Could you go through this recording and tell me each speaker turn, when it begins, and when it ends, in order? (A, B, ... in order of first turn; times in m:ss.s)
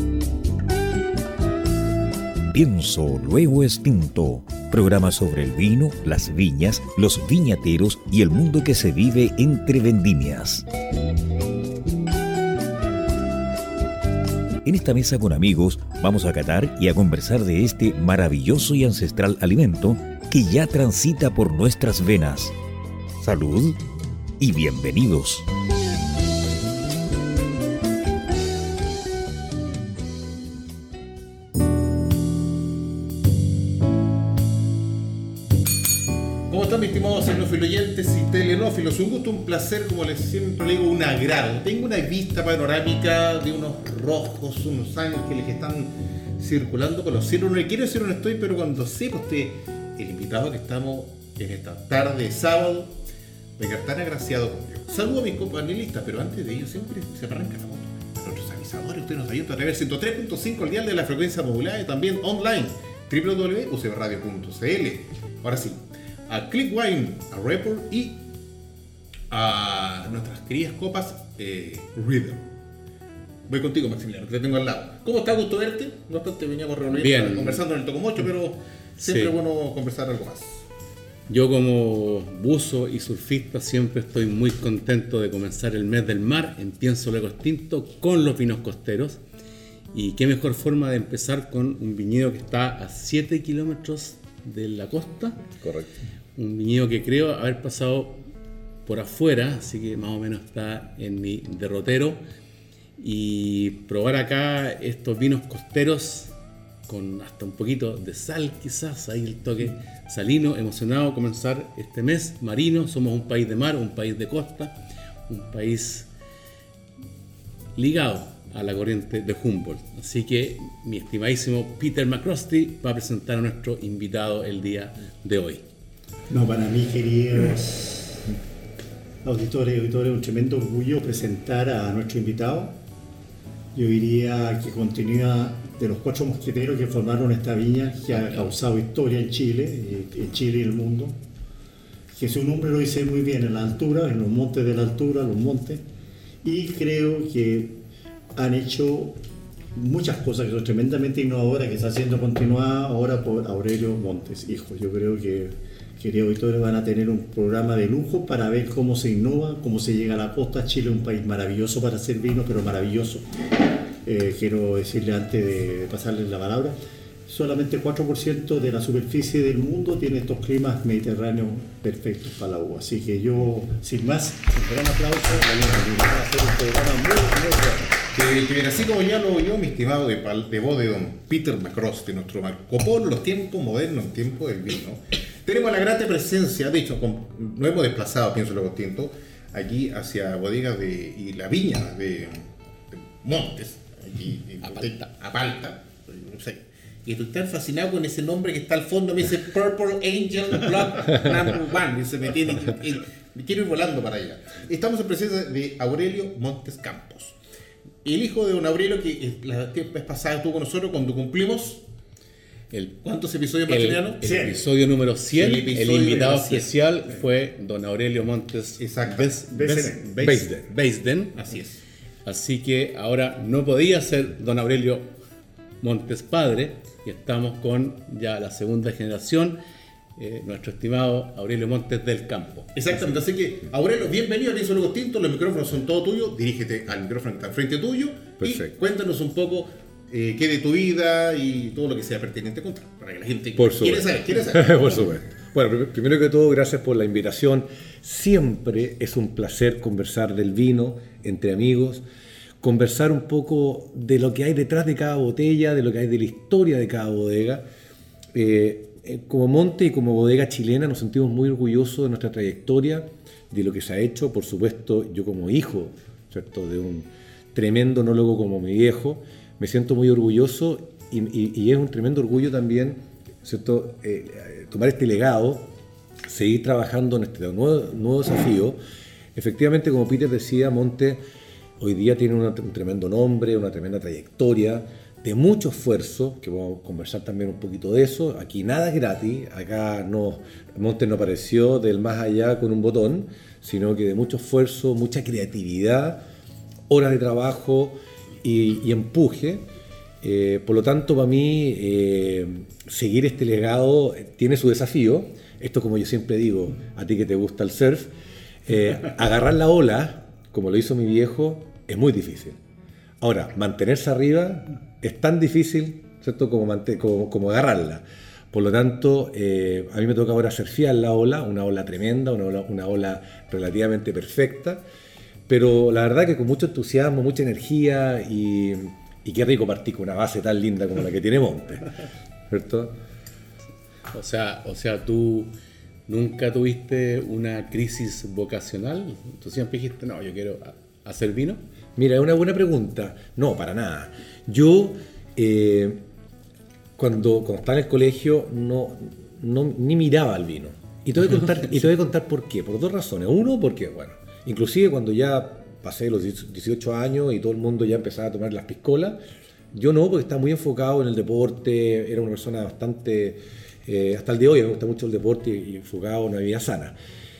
0:02.5-0:10.7 A
0:14.6-0:22.6 A
0:23.2-0:23.8 A
0:24.4-0:25.5 A
0:36.5-0:53.0 B
0:53.6-1:08.2 B
1:09.3-1:12.4 B
1:13.5-1:20.6 B
1:16.9-1:17.6 C
1:19.0-1:19.4 C
1:21.3-1:29.2 C
1:29.9-1:35.4 C
1:35.6-1:35.9 D
1:36.4-1:38.2 C
1:38.9-1:42.2 C
1:43.0-1:46.3 C
1:46.9-1:54.8 C
1:55.3-1:56.1 C
1:57.8-2:05.6 C
2:06.3-2:08.2 E
2:09.2-2:12.8 E
2:13.8-2:21.2 E
2:22.1-2:25.8 E
2:26.4-2:27.8 E
2:28.4-2:29.2 E
2:29.7-2:43.3 E
2:44.0-2:46.8 E
2:47.3-2:58.0 E
2:58.1-3:27.4 B
3:28.0-3:31.8 B
3:32.7-3:33.0 C
3:33.0-3:34.6 B
3:33.7-3:41.5 C
3:34.2-3:34.6 E
3:35.3-3:36.7 B
3:38.8-3:40.0 B
3:39.5-3:40.0 E
3:40.2-3:40.7 D
3:41.4-3:41.8 B
3:42.2-3:45.1 C
3:45.8-3:49.6 C
3:50.2-3:52.8 C
3:52.8-4:05.1 B
3:58.4-3:58.7 D
4:03.6-4:12.0 D
4:12.6-4:17.6 D
4:18.3-4:35.7 D
4:36.2-4:38.8 D
4:39.4-4:41.2 D
4:41.8-4:56.2 D
4:56.9-4:59.7 D
5:00.2-5:08.1 D
5:08.7-5:12.6 D
5:13.2-5:24.8 D
5:25.5-5:31.9 D
5:32.5-5:33.0 D
5:34.1-5:35.5 C
5:36.1-5:41.6 C
5:42.0-5:46.0 D
5:47.0-5:59.2 D
5:59.7-6:07.0 D